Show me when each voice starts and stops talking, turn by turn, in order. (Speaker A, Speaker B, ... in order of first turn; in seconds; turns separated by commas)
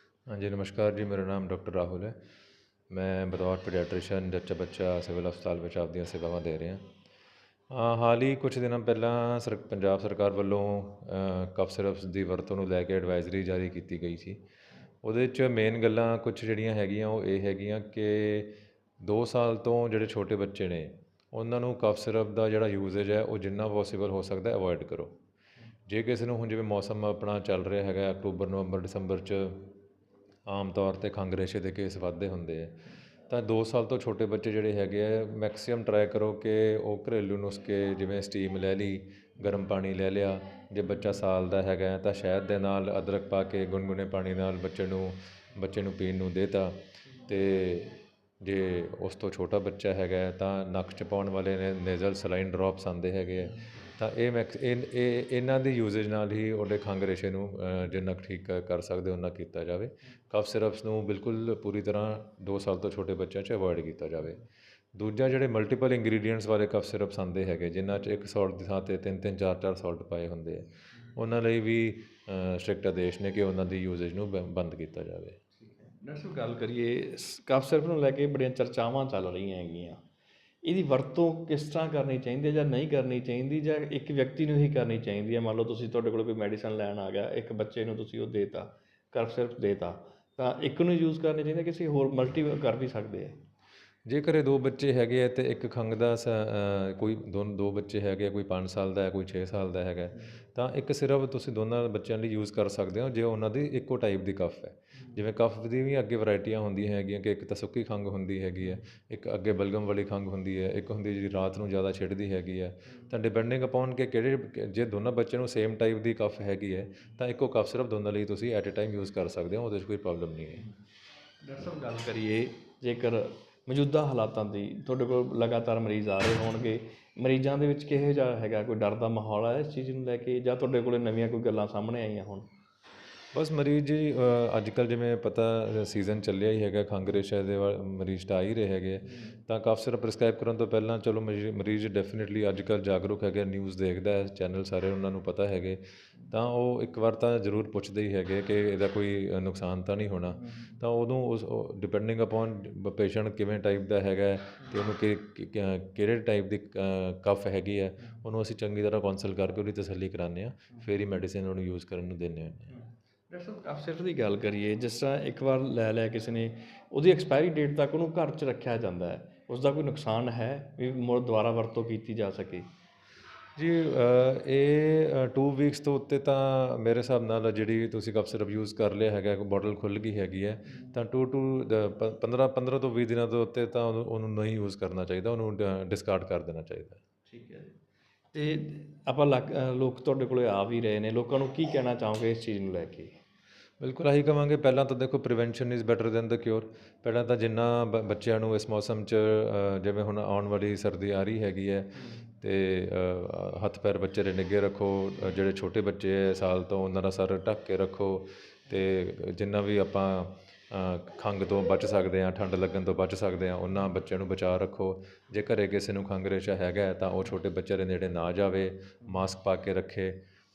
Speaker A: 0.3-2.2, Speaker A: 2.9-6.8, Speaker A: 7.7-14.4, Speaker A: 15.0-25.1, Speaker A: 25.9-29.7, Speaker A: 30.5-32.8, Speaker A: 33.3-64.4, Speaker A: 65.0-75.4, Speaker B: 75.7-80.0, Speaker B: 80.6-93.4, Speaker A: 94.1-120.7, Speaker B: 121.4-132.5, Speaker A: 133.3-162.8, Speaker B: 162.7-172.7, Speaker A: 173.6-187.0, Speaker B: 187.3-187.7, Speaker B: 188.3-193.2, Speaker A: 193.8-220.2